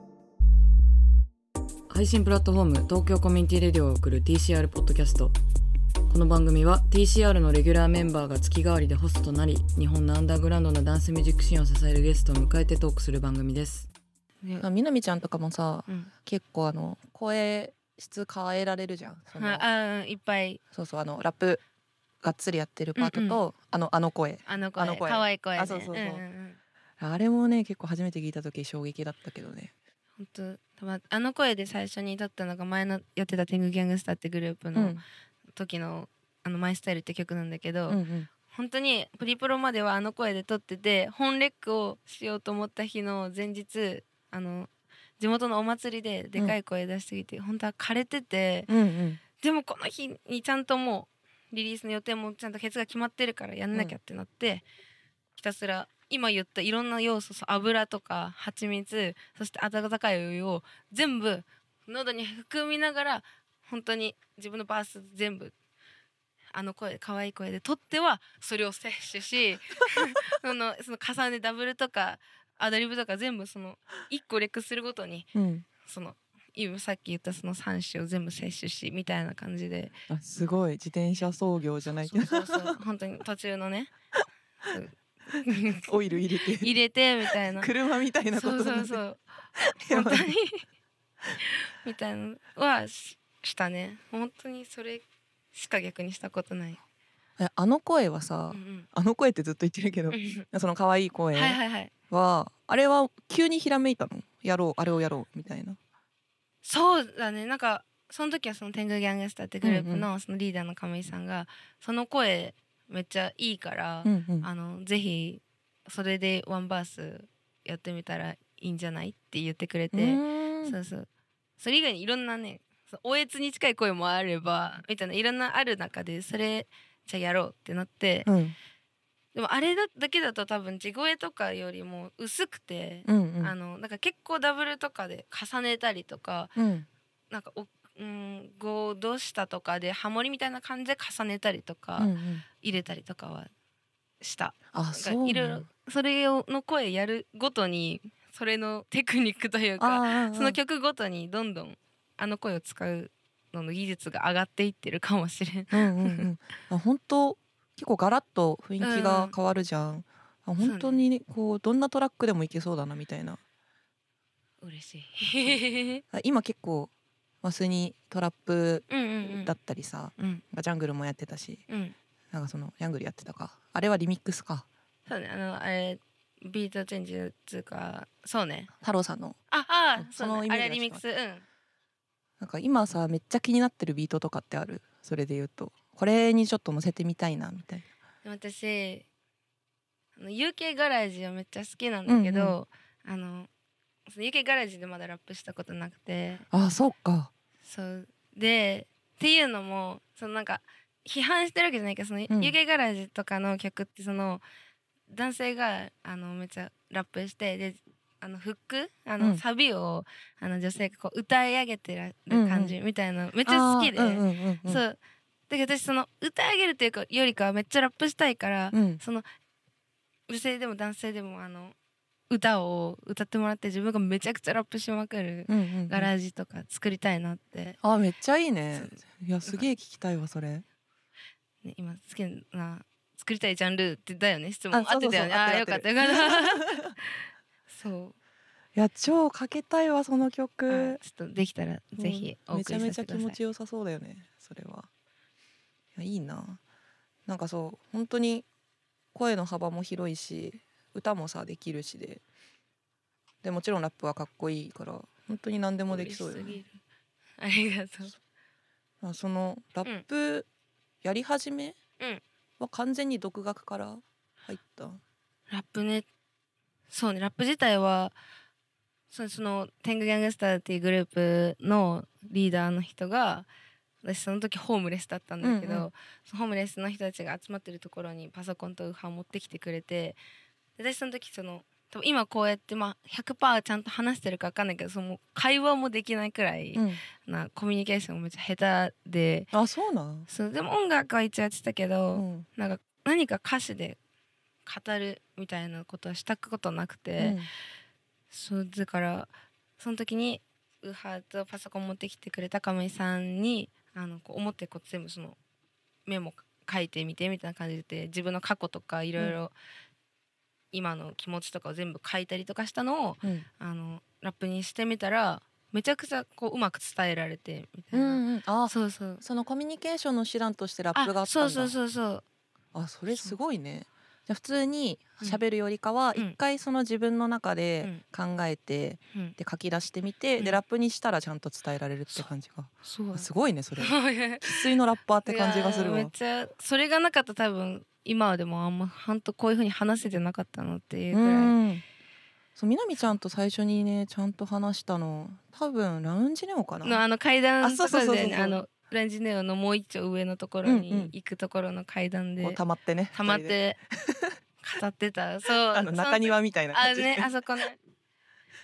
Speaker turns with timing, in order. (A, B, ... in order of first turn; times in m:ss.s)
0:01.9-0:05.3 A
0:06.1-0:13.9 A
0:14.6-0:19.6 B
0:19.3-0:20.6 C
0:20.7-0:21.6 B
0:22.2-0:26.2 B
0:23.0-0:23.4 C
0:24.4-0:26.6 C
0:27.0-0:29.7 B
0:30.2-0:35.0 C
0:34.7-0:35.0 B
0:35.5-0:48.7 C
0:37.9-0:38.3 B
0:48.7-0:49.2 B
0:49.4-0:54.6 C
0:55.4-1:05.5 C
1:06.5-1:20.0 C
1:15.3-1:15.6 B
1:20.1-1:22.8 B
1:22.0-1:23.9 C
1:24.7-1:25.9 C
1:25.8-1:26.7 B
1:26.6-1:27.7 C
1:27.4-1:29.0 B
1:28.3-1:29.2 C
1:29.6-1:30.3 B
1:29.9-1:30.6 C
1:31.4-1:36.8 C
1:37.4-1:41.6 B
1:38.5-1:38.9 C
1:40.1-1:40.4 C
1:41.3-1:41.9 C
1:42.1-1:45.8 B
1:46.6-2:01.1 C
1:49.6-1:50.1 B
1:54.0-1:54.5 B
1:59.9-2:00.7 B
2:01.6-2:08.3 C
2:08.2-2:08.6 B
2:09.3-2:16.5 C
2:13.0-2:13.5 B
2:16.6-2:16.9 B
2:17.3-2:23.5 C
2:22.0-2:22.4 B
2:24.2-2:36.2 C
2:24.7-2:25.7 B
2:29.8-2:30.6 B
2:35.7-2:43.4 B
2:38.8-2:39.3 C
2:40.6-2:41.0 C
2:44.6-2:46.0 C
2:46.1-2:46.9 B
2:47.4-2:51.6 B
2:48.9-2:49.5 C
2:50.2-2:50.4 C
2:51.7-2:52.0 C
2:52.3-2:54.6 B
2:55.1-2:58.7 C
2:58.8-2:59.4 B
2:59.5-3:01.4 C
3:00.0-3:01.0 B
3:02.4-3:07.8 B
3:08.2-3:09.0 C
3:10.2-3:13.5 C
3:12.1-3:12.5 B
3:14.1-3:16.5 C
3:16.5-3:17.3 B
3:17.6-3:24.4 C
3:22.3-3:22.5 B
3:25.1-3:35.0 C
3:32.3-3:32.7 B
3:33.4-3:34.8 B
3:35.5-3:39.2 C
3:38.7-3:39.0 B
3:40.3-3:41.7 C
3:42.3-3:47.8 C
3:45.5-3:46.1 B
3:47.8-3:50.6 B
3:48.7-3:49.6 C
3:51.6-3:58.1 C
3:54.7-3:56.9 B
3:58.7-4:01.0 B
4:00.7-4:03.4 C
4:02.0-4:04.9 B
4:06.0-4:06.6 B
4:07.3-4:08.4 B
4:09.1-4:12.2 B
4:13.4-4:16.6 B
4:15.9-4:16.7 C
4:17.4-4:18.2 C
4:19.0-4:20.5 B
4:21.0-4:21.8 B
4:22.6-4:25.0 B
4:25.5-4:26.1 C
4:26.9-4:28.1 C
4:29.1-4:33.5 C
4:34.0-4:40.2 C
4:35.4-4:35.9 B
4:40.8-4:49.5 C
4:46.7-4:47.0 B
4:49.5-4:50.3 B
4:50.3-4:54.0 C
4:52.1-4:52.4 B
4:54.6-4:57.4 C
4:57.2-4:57.5 B
4:58.3-5:05.4 C
5:06.0-5:09.5 C
5:10.7-5:19.2 C
5:17.9-5:21.7 B
5:20.9-5:22.2 C
5:22.7-5:36.1 B
5:23.1-5:23.4 C
5:32.8-5:34.7 C
5:35.2-5:41.6 C
5:41.1-5:41.8 B
5:42.6-5:47.0 B
5:46.8-5:52.6 C
5:47.6-5:48.6 B
5:50.6-5:51.1 B
5:52.4-5:54.3 B
5:53.1-5:53.8 C
5:54.6-5:57.8 C
5:55.7-5:57.3 B